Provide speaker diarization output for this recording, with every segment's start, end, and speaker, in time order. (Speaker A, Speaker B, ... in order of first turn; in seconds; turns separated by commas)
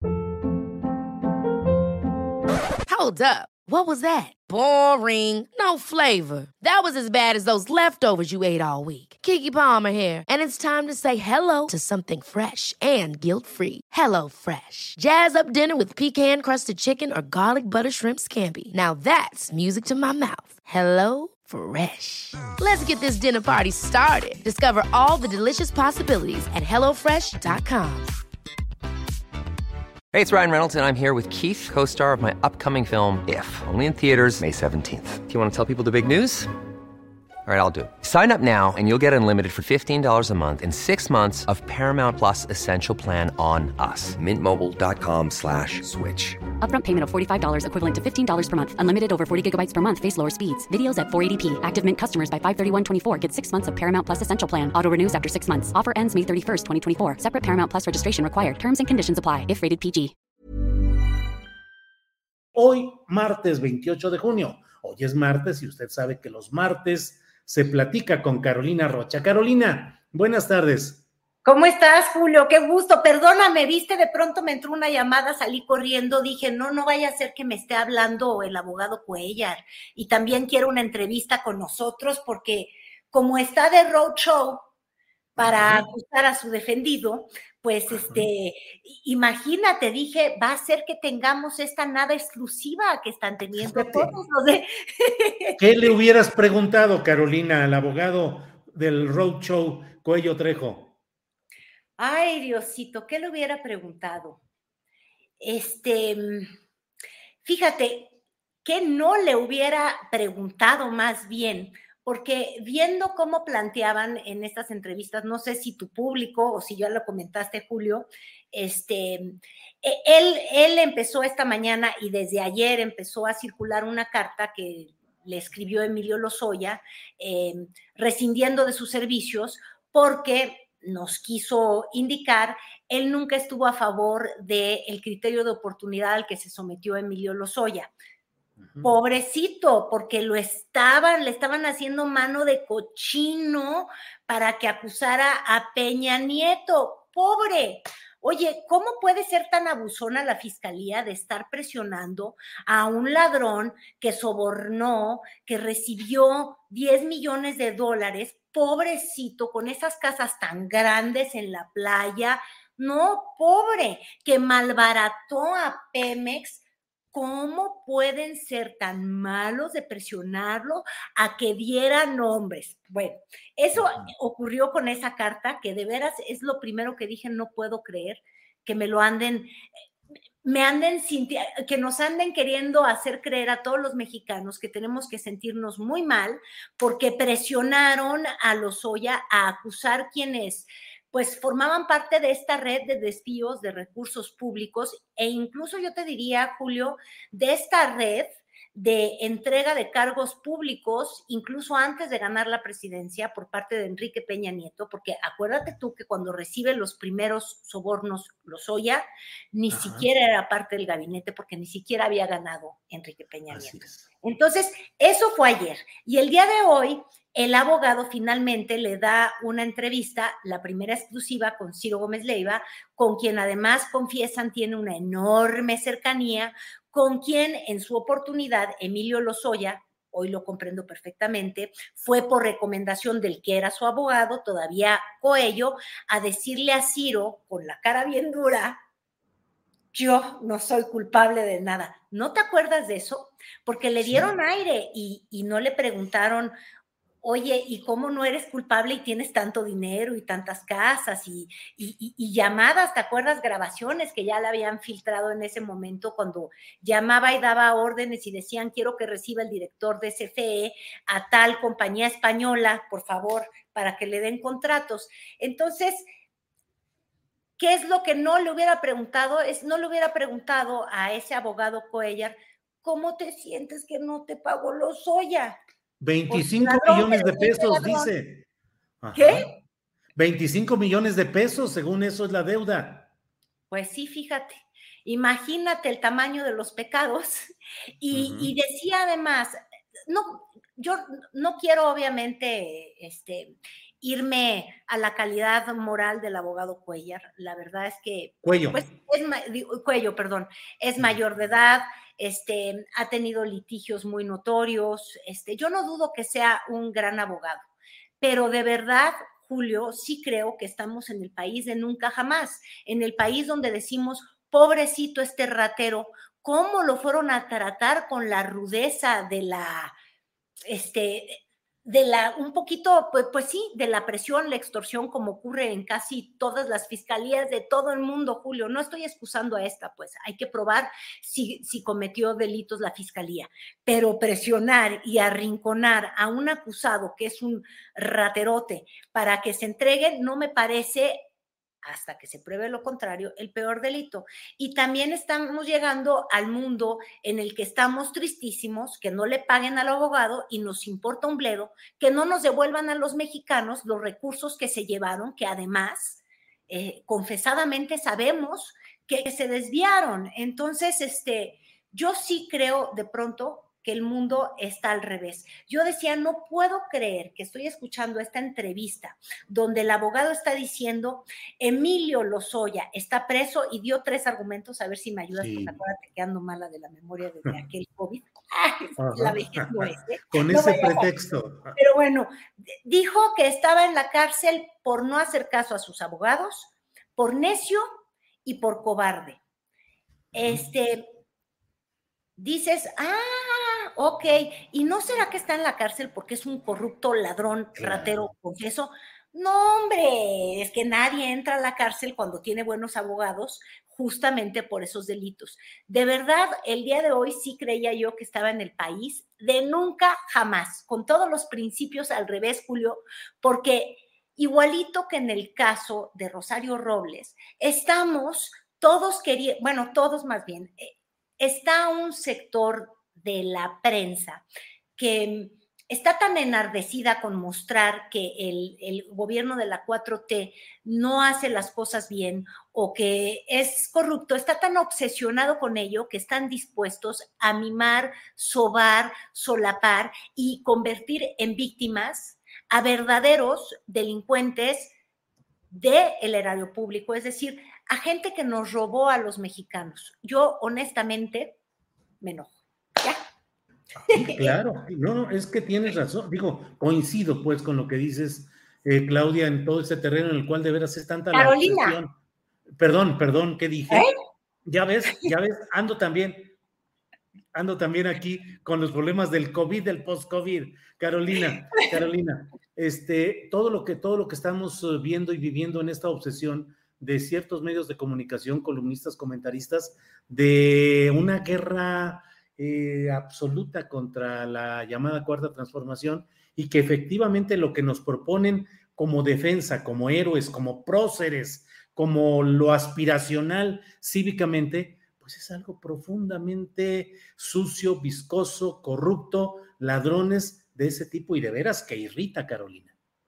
Speaker A: 2.9-28.1, Speaker B: 30.1-36.5, Speaker B: 37.5-46.4, Speaker C: 46.6-60.1, Speaker D: 62.5-71.0, Speaker E: 71.5-84.7, Speaker E: 85.4-95.6, Speaker D: 85.4-85.9, Speaker D: 87.9-88.3, Speaker D: 93.6-94.1, Speaker D: 95.6-101.0, Speaker E: 102.0-104.4, Speaker E: 105.4-106.5, Speaker E: 107.4-108.1, Speaker E: 108.7-137.9, Speaker D: 138.6-138.9, Speaker E: 138.8-179.5, Speaker D: 173.8-174.1, Speaker E: 180.4-238.8, Speaker D: 209.7-210.1, Speaker D: 213.5-214.1, Speaker E: 239.9-246.5, Speaker D: 244.0-244.3, Speaker E: 247.2-266.1, Speaker E: 267.6-275.6, Speaker D: 276.0-278.5, Speaker E: 276.3-278.1, Speaker D: 279.0-279.5, Speaker E: 279.1-279.4, Speaker D: 280.2-283.1, Speaker E: 283.7-307.6, Speaker D: 288.1-288.5, Speaker D: 298.4-298.8, Speaker E: 308.2-319.9, Speaker E: 320.7-341.2, Speaker E: 341.8-381.1, Speaker D: 375.4-375.8, Speaker D: 379.0-381.8, Speaker E: 381.8-382.3, Speaker E: 382.8-387.9, Speaker E: 388.4-389.4, Speaker E: 390.3-391.1, Speaker E: 392.4-424.4, Speaker D: 397.8-398.3, Speaker E: 425.0-444.9, Speaker E: 445.7-451.6, Speaker E: 452.2-453.2, Speaker D: 454.1-462.1, Speaker E: 454.1-454.6, Speaker E: 461.3-462.0, Speaker D: 462.8-464.1, Speaker D: 464.7-466.5, Speaker D: 467.5-502.9